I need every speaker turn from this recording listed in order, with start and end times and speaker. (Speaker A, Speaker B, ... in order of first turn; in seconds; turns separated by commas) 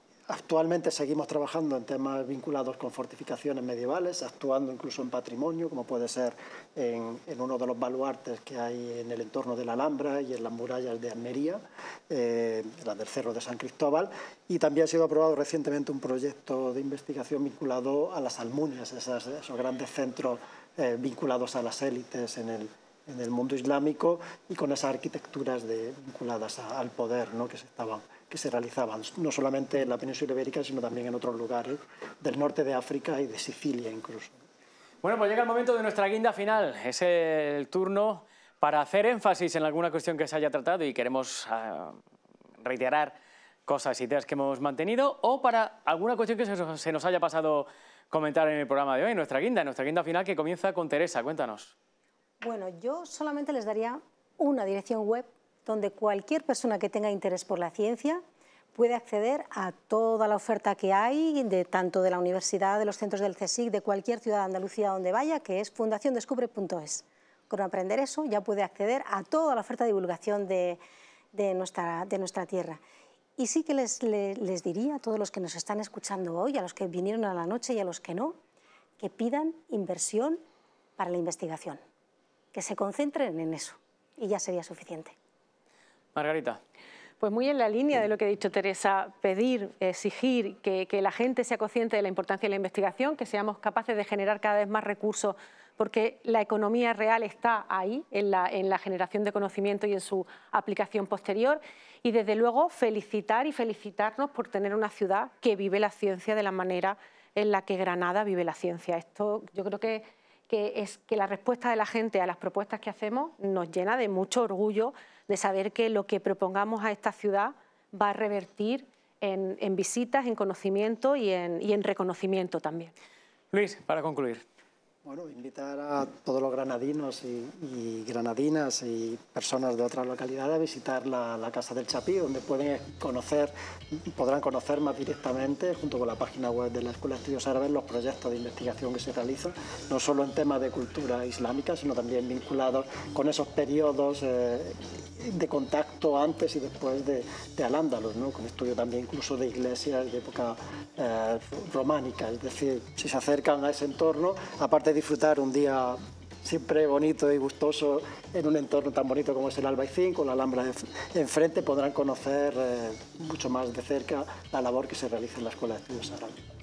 Speaker A: 0.3-34.4, Speaker B: 35.0-42.0, Speaker B: 42.6-51.8, Speaker C: 52.4-58.2, Speaker C: 58.8-70.8, Speaker C: 71.3-72.8, Speaker C: 73.4-78.4, Speaker C: 79.0-80.4, Speaker C: 81.0-81.8, Speaker C: 82.5-85.2, Speaker B: 86.2-86.6, Speaker D: 87.2-122.9, Speaker B: 123.5-124.4, Speaker A: 125.0-166.3